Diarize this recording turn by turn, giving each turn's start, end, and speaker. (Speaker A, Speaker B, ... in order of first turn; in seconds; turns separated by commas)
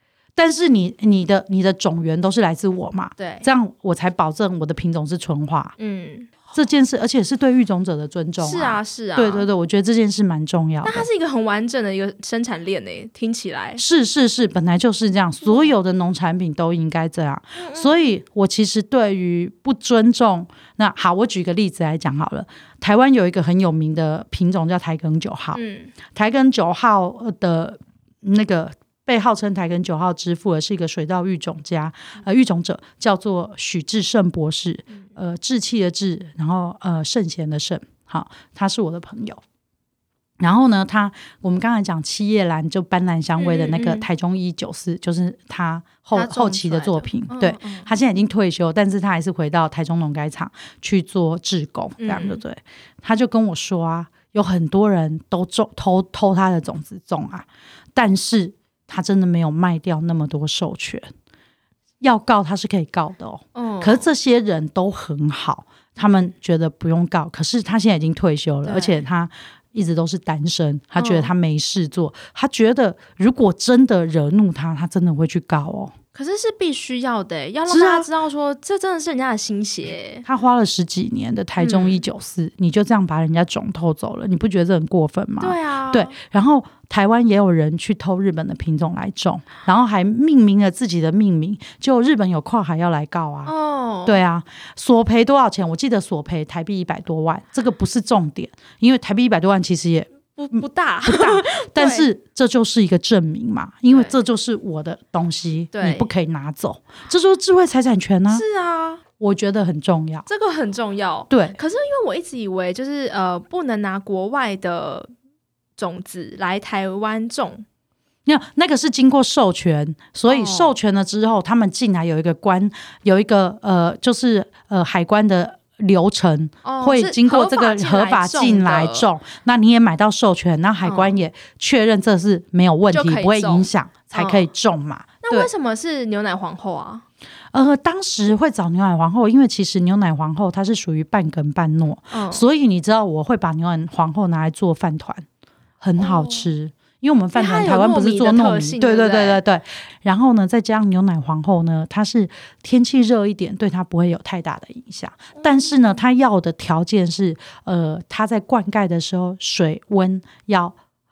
Speaker A: 0.4-5.7, Speaker B: 3.2-3.5, Speaker B: 5.8-6.3, Speaker A: 6.5-11.1, Speaker B: 8.4-9.5, Speaker B: 10.8-13.8, Speaker A: 13.8-25.6, Speaker B: 15.5-15.7, Speaker B: 17.6-18.0, Speaker B: 25.5-25.9, Speaker A: 26.1-39.4, Speaker A: 40.4-61.1, Speaker B: 43.4-44.1, Speaker B: 46.1-47.9, Speaker B: 52.0-52.4, Speaker A: 62.0-75.9, Speaker B: 63.5-64.1, Speaker B: 68.6-69.0, Speaker B: 71.0-71.3, Speaker B: 76.1-80.3, Speaker A: 77.7-78.1, Speaker A: 80.2-93.5, Speaker B: 81.6-82.0, Speaker B: 85.4-86.2, Speaker B: 93.5-94.2, Speaker A: 94.1-108.4, Speaker B: 100.4-102.1, Speaker B: 105.7-106.1, Speaker B: 108.3-109.0, Speaker A: 109.2-110.3, Speaker B: 110.3-115.1, Speaker A: 111.3-111.6, Speaker B: 115.8-117.6, Speaker A: 118.3-135.5, Speaker B: 120.3-120.7, Speaker B: 126.6-129.1, Speaker B: 130.8-131.2, Speaker B: 132.9-134.5, Speaker B: 135.2-137.1, Speaker A: 137.5-145.2, Speaker B: 142.1-142.5, Speaker A: 145.8-160.8, Speaker B: 146.0-146.5, Speaker B: 147.3-149.4